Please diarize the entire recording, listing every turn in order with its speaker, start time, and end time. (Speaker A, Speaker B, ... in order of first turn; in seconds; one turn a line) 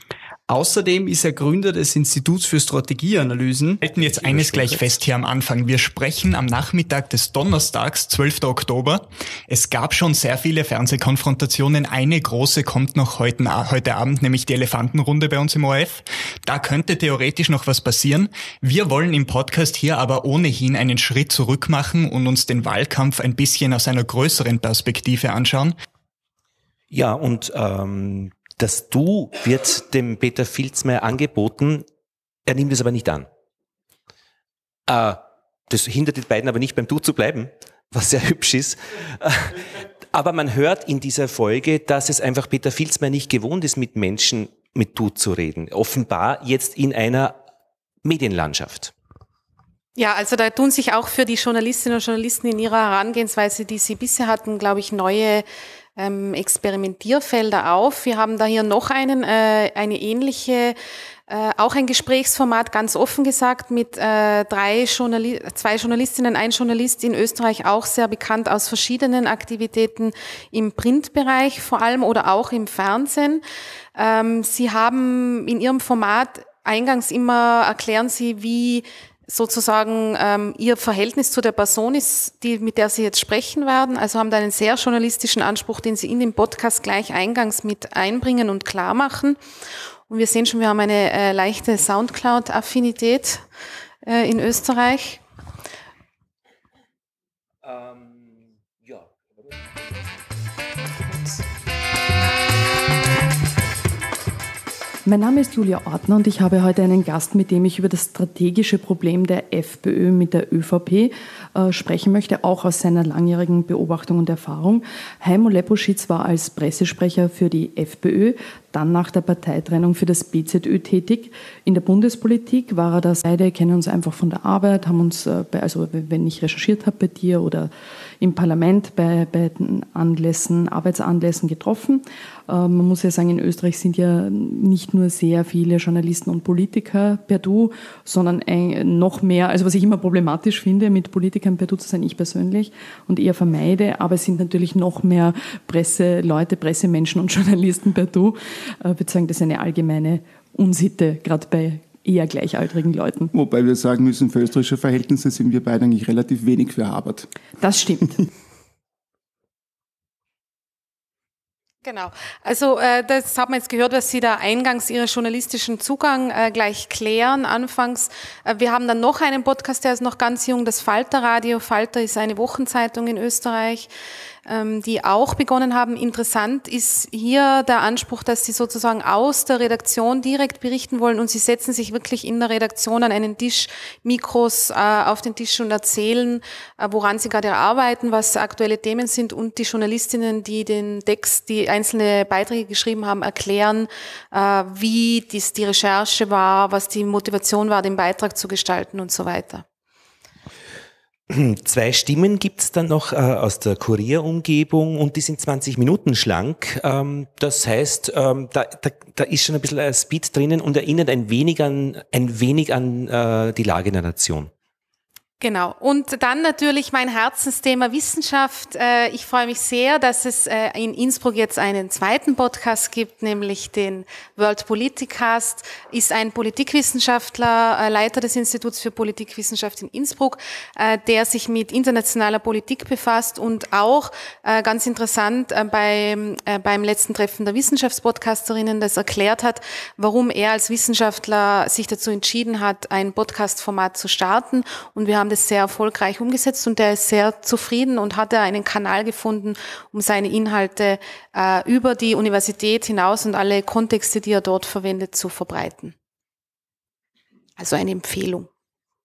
Speaker A: 0.5-4.8
Speaker B: 3.8-25.7
Speaker C: 26.9-31.9
Speaker C: 32.5-33.3
Speaker C: 34.9-47.4
Speaker C: 48.0-48.9
Speaker D: 50.0-55.4
Speaker D: 56.0-60.8
Speaker D: 61.3-73.4
Speaker D: 74.0-89.4
Speaker D: 90.1-93.4
Speaker D: 94.0-95.2
Speaker C: 97.7-98.2
Speaker E: 105.0-127.7
Speaker E: 128.2-153.3
Speaker F: 153.3-157.3
Speaker E: 157.6-158.1
Speaker D: 161.8-173.9
Speaker D: 174.5-199.6
Speaker C: 201.3-214.5
Speaker D: 215.4-255.9
Speaker D: 257.6-258.5